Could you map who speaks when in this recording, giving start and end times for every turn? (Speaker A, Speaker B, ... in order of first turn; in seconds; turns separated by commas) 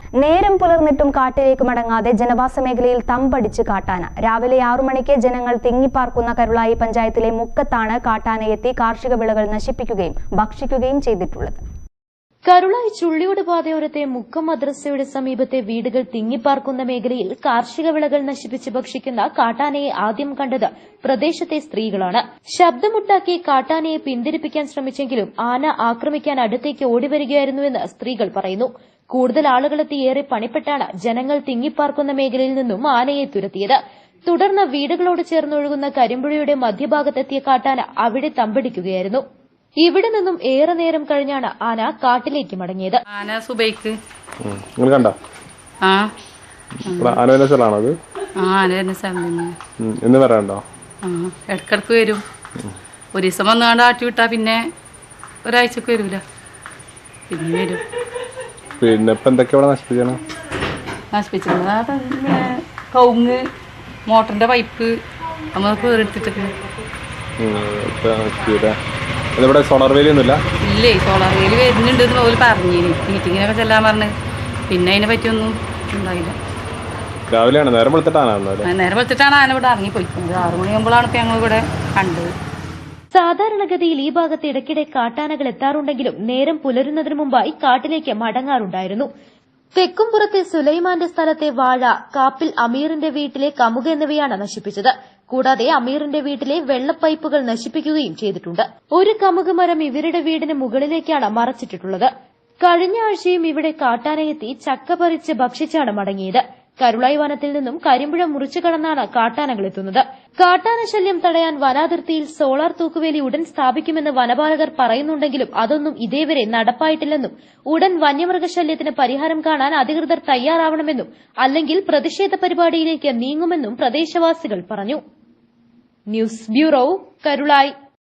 Speaker A: 0.2-11.6, Speaker B: 12.4-39.2, Speaker B: 39.8-43.0, Speaker C: 43.1-44.0, Speaker D: 44.4-45.1, Speaker C: 45.8-46.1, Speaker D: 46.9-47.9, Speaker C: 46.9-47.2, Speaker C: 48.4-49.5, Speaker D: 49.8-50.6, Speaker C: 51.0-52.2, Speaker C: 53.1-54.6, Speaker C: 55.5-56.2, Speaker C: 57.3-57.8, Speaker D: 58.8-60.2, Speaker C: 61.1-63.4, Speaker C: 64.1-64.9, Speaker C: 65.5-66.5, Speaker D: 67.4-68.8, Speaker D: 69.3-70.4, Speaker C: 70.7-74.1, Speaker C: 74.7-76.3, Speaker D: 77.3-78.7, Speaker C: 78.6-82.3, Speaker B: 83.1-89.1, Speaker B: 89.8-102.1, Speaker B: 102.6-125.0, Speaker B: 126.1-127.7